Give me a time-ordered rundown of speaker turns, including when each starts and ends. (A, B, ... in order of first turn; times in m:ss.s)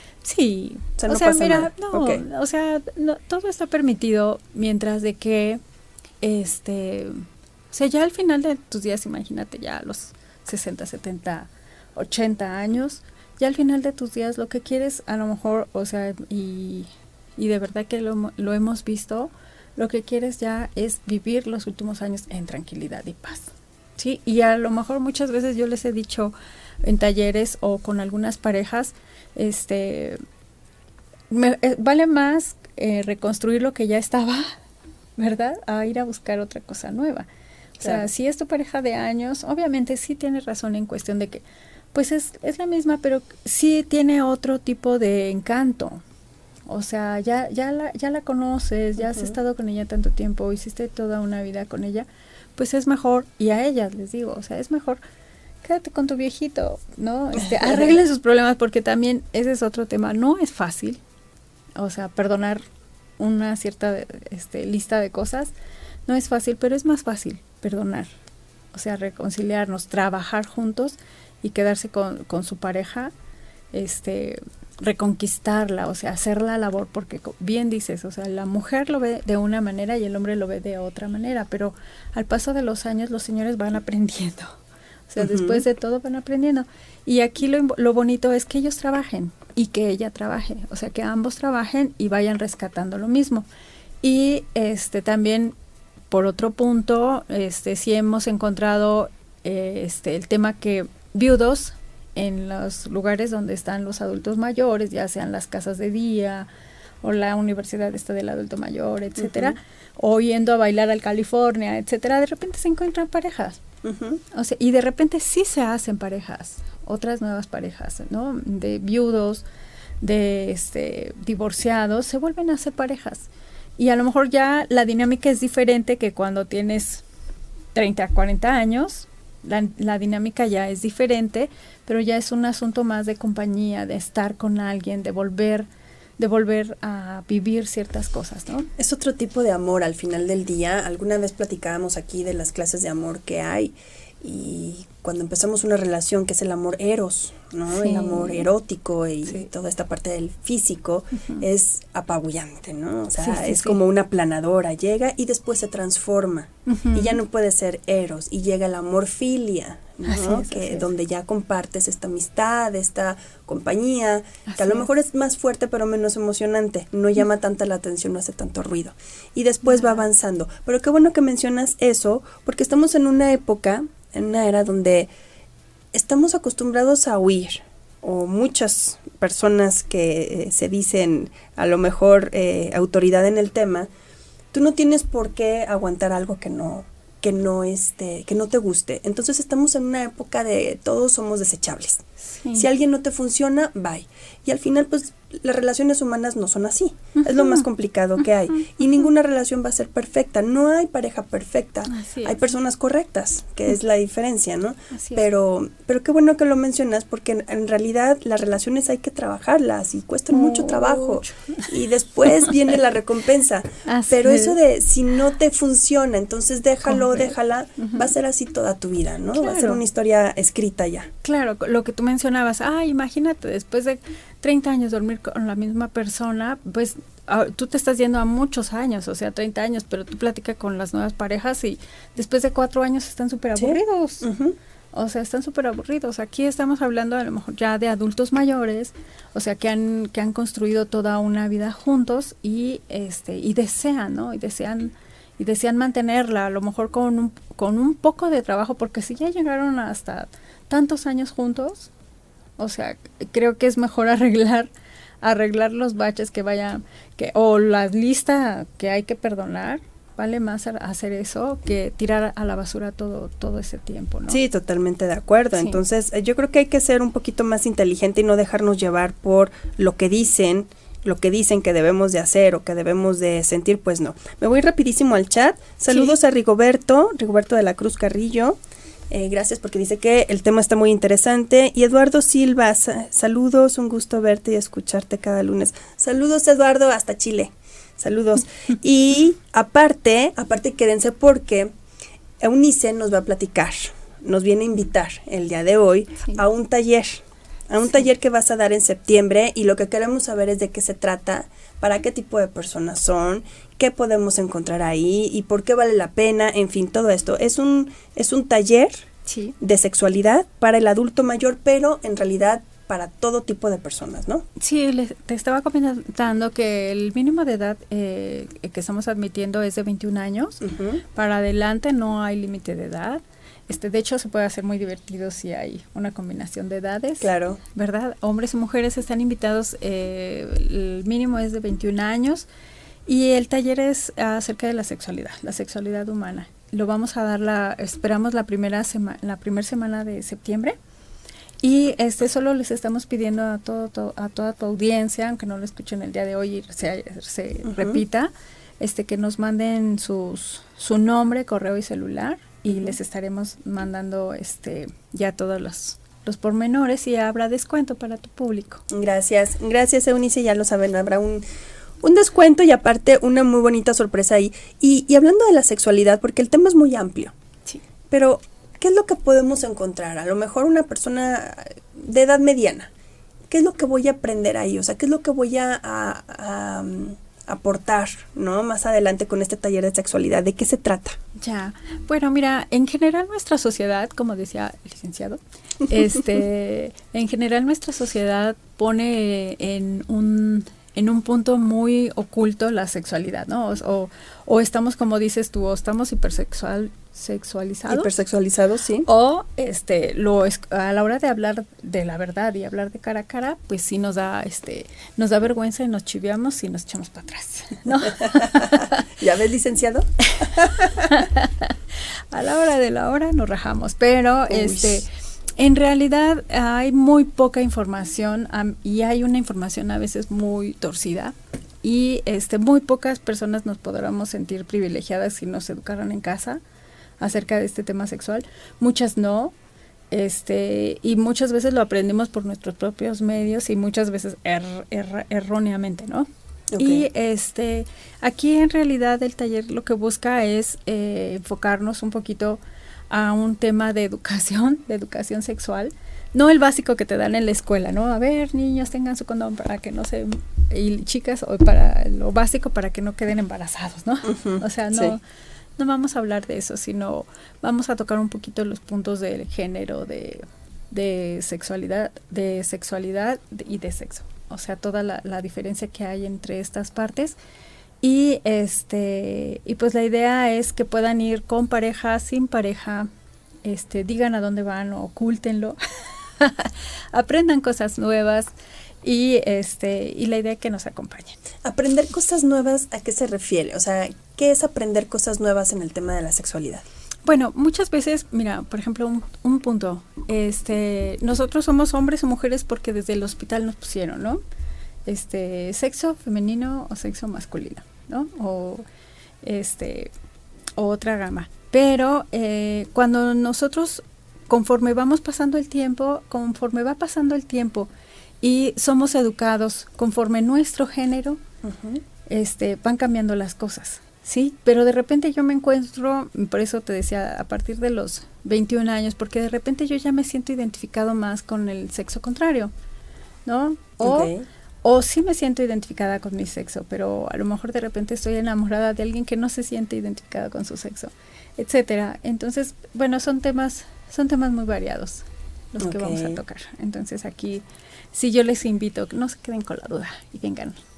0:00.2-0:05.6 A
0:01.0-0:02.2 B
0:06.2-0:07.2 A
0:07.7-0:30.2 A
0:31.3-0:34.5 A
0:35.2-0:37.3 A
0:37.8-0:41.4 A
0:37.8-0:38.1 B
0:41.9-0:46.0 A
0:46.7-0:55.0 A
0:49.0-0:49.3 B
0:55.6-1:01.0 A
0:57.6-0:58.0 B
1:01.8-1:02.6 A
1:03.2-1:05.5 A
1:06.1-1:08.1 A
1:08.7-1:13.1 A
1:13.7-1:24.6 A
1:25.1-1:33.4 A
1:25.2-1:25.6 B
1:34.0-1:35.5 A
1:36.1-1:46.5 A
1:47.0-1:53.6 A
1:49.2-1:49.6 B
1:53.8-1:54.2 B
1:54.3-1:59.4 A
2:00.0-2:03.3 A
2:03.8-2:07.0 A
2:07.8-2:15.7 A
2:16.2-2:18.7 A
2:18.8-2:55.1 B
2:27.7-2:28.5 A
2:31.2-2:31.4 A
2:33.2-2:33.8 A
2:36.7-2:37.2 A
2:40.1-2:40.9 A
2:44.5-2:44.9 A
2:49.7-2:50.0 A
2:55.9-3:03.9 B
3:04.5-3:41.1 B
3:12.4-3:12.7 A
3:17.2-3:17.7 A
3:21.9-3:22.5 A
3:24.9-3:25.2 A
3:30.3-3:31.7 A
3:33.9-3:34.6 A
3:36.9-3:38.1 A
3:39.4-3:39.8 A
3:41.2-3:54.3 A
3:53.6-3:54.6 B
3:54.9-4:11.9 A
4:12.6-4:14.7 A
4:15.2-4:24.4 A
4:24.3-4:38.6 B
4:39.1-4:51.7 B
4:52.4-5:09.1 B
5:09.3-5:09.6 A
5:09.6-5:14.4 B
5:14.6-5:20.6 A
5:20.6-5:21.0 B
5:21.2-5:32.5 A
5:27.2-5:27.6 B
5:33.1-5:40.8 A
5:41.6-5:58.8 A
5:47.7-5:48.0 B
5:52.7-5:53.0 B
5:58.9-6:01.4 B
6:02.0-6:07.3 B
6:08.1-6:12.9 B
6:13.5-6:21.2 B
6:21.4-6:38.1 A
6:37.9-6:39.1 B
6:39.1-6:49.0 A
6:48.1-6:51.1 B
6:51.1-7:06.6 A
6:54.5-6:55.0 B
7:07.2-7:09.5 A
7:10.1-7:22.6 A
7:16.7-7:17.1 B
7:23.1-7:35.2 A
7:34.3-7:35.2 B
7:35.8-7:47.4 A
7:48.0-7:53.1 A
7:53.6-7:55.8 A
7:56.4-7:58.5 A
7:59.0-8:01.4 A
8:01.6-8:06.8 B
8:07.3-8:14.4 A
8:15.1-8:18.8 A
8:19.4-8:20.1 A
8:20.8-8:27.9 A
8:28.4-8:31.4 A
8:31.6-8:32.0 B
8:32.3-8:42.7 A
8:43.5-8:44.3 A
8:44.0-8:44.4 B
8:44.8-9:00.8 A
8:55.8-8:56.4 B